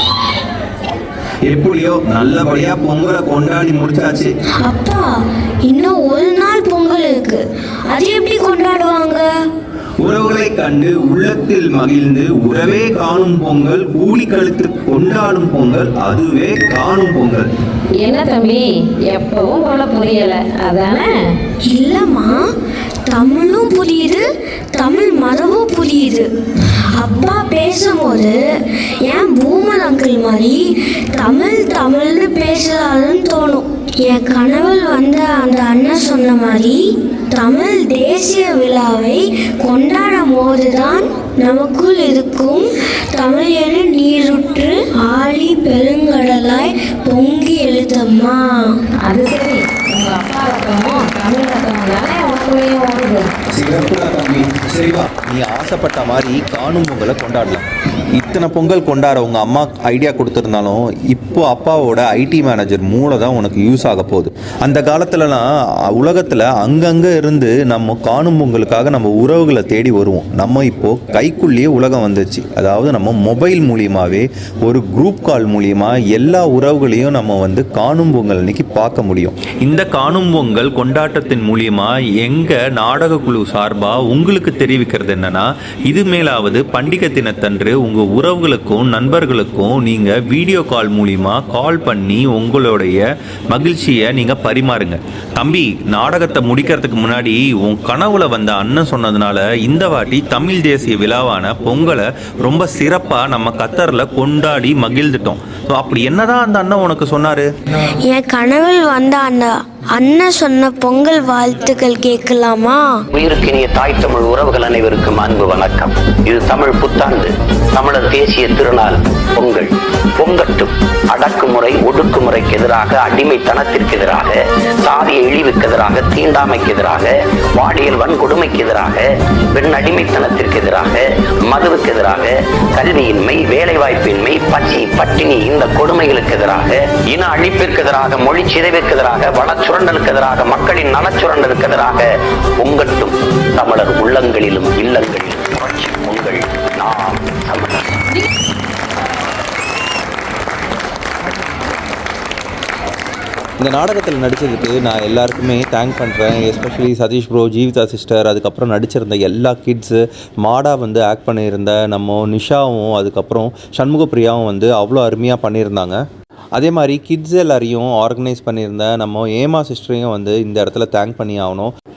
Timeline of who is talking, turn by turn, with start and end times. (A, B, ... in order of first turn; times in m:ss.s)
0:01.5-0:04.3 A
0:04.6-0:05.1 B
0:05.6-0:09.3 B
0:10.0-0:17.5 A
0:18.0-0:21.3 C
0:21.7-0:22.4 B
0:23.1-0:48.8 B
0:49.0-0:53.3 C
0:53.5-1:47.5 A
1:48.0-1:53.0 B
1:53.1-2:27.9 D
2:33.6-2:46.0 A
2:46.6-2:51.7 A